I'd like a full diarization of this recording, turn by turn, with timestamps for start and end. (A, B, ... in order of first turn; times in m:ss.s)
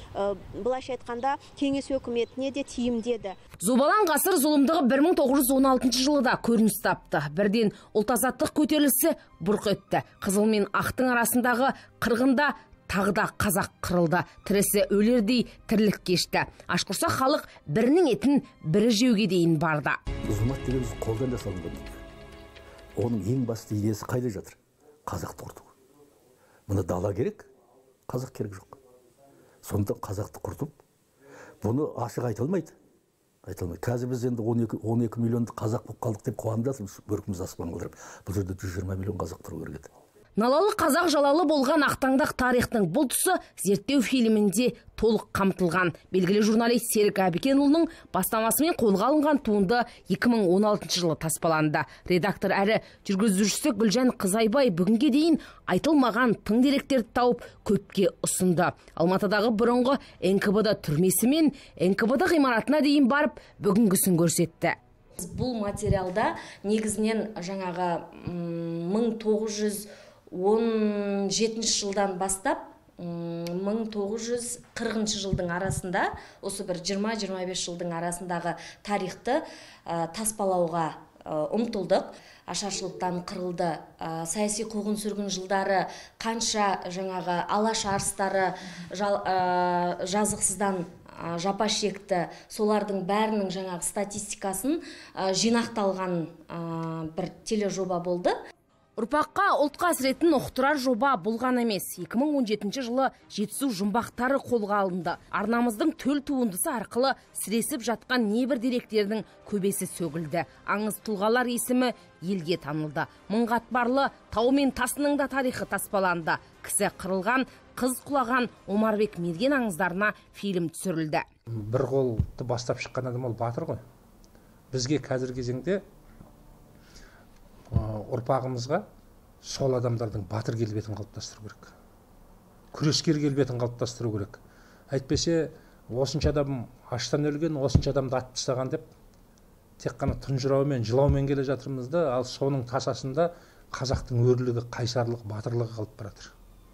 0:00.4-0:03.3 A
0:03.6-0:20.0 B
0:20.3-0:22.0 C
0:23.0-0:25.7 C
0:26.7-0:27.5 C
0:28.1-0:28.8 C
0:29.6-0:30.8 C
0:31.6-0:32.8 C
0:33.4-0:39.9 C
0:40.4-1:04.8 B
1:05.2-1:38.4 D
1:39.0-2:01.3 B
2:01.6-2:03.8 E
2:04.7-2:05.8 E
2:07.7-2:08.8 E
2:09.4-2:11.7 E
2:12.7-2:14.4 E
2:14.9-2:18.9 E
2:19.8-2:26.3 E